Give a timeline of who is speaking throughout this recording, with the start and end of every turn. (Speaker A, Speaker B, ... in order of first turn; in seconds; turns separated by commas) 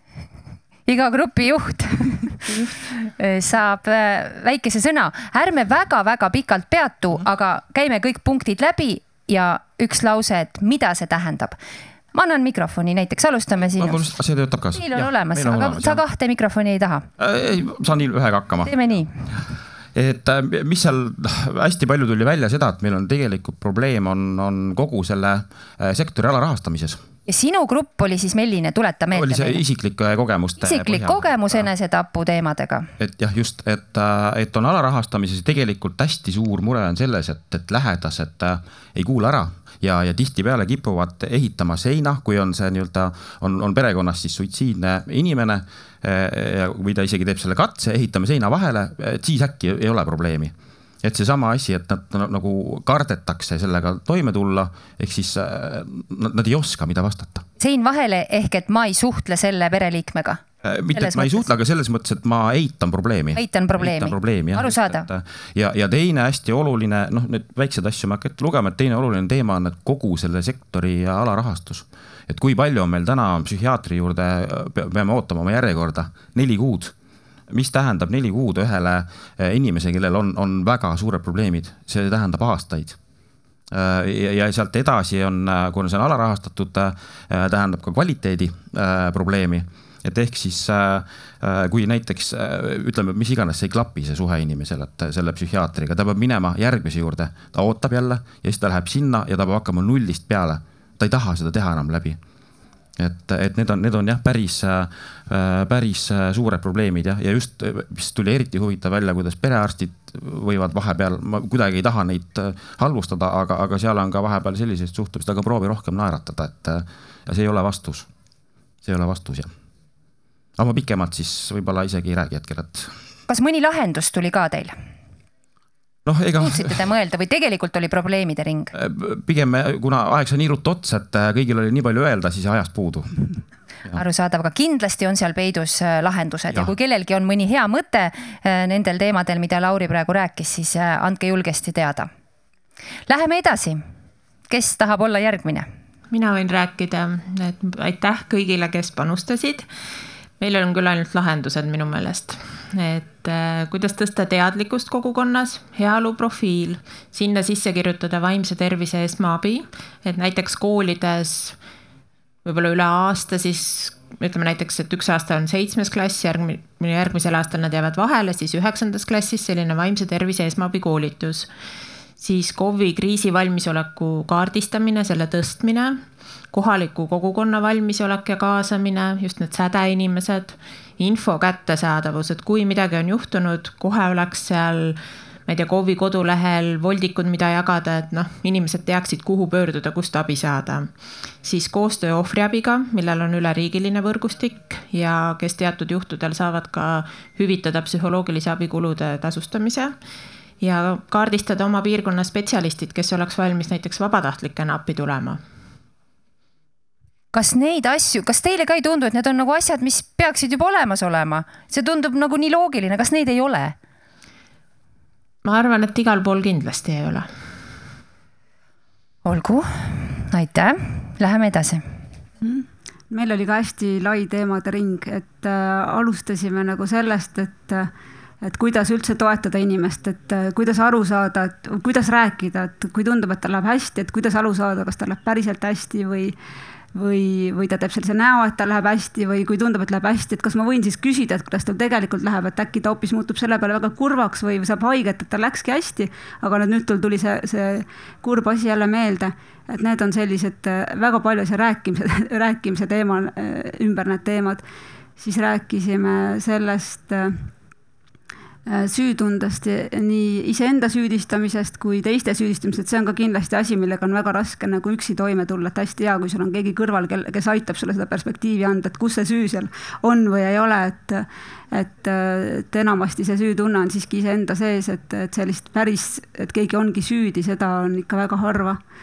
Speaker A: 0.9-11.6, Speaker A: 12.1-14.0, Speaker B: 13.8-16.0, Speaker A: 14.7-17.1, Speaker B: 17.2-27.0, Speaker A: 18.6-19.3, Speaker A: 27.3-29.6, Speaker B: 29.1-31.7, Speaker A: 30.6-32.9, Speaker B: 33.0-57.5, Speaker A: 57.6-60.4, Speaker B: 60.6-76.9, Speaker A: 60.9-61.5, Speaker A: 63.4-65.1, Speaker B: 77.5-83.0, Speaker B: 83.7-102.2, Speaker B: 103.0-118.1, Speaker B: 118.8-119.5, Speaker B: 120.6-122.9, Speaker A: 123.3-124.7, Speaker B: 126.0-126.8, Speaker A: 126.4-128.7, Speaker B: 128.7-134.0, Speaker A: 133.9-142.1, Speaker A: 143.1-143.8, Speaker A: 144.5-145.7, Speaker C: 146.1-149.7, Speaker C: 150.4-161.6, Speaker C: 162.4-171.5, Speaker C: 172.2-176.0, Speaker C: 176.5-190.9, Speaker C: 191.4-199.9, Speaker C: 200.6-205.4, Speaker A: 207.3-213.8, Speaker C: 215.4-217.3, Speaker A: 219.2-221.8, Speaker D: 222.4-227.9, Speaker D: 228.4-236.3, Speaker D: 236.9-254.6, Speaker D: 255.2-257.5, Speaker D: 258.7-278.8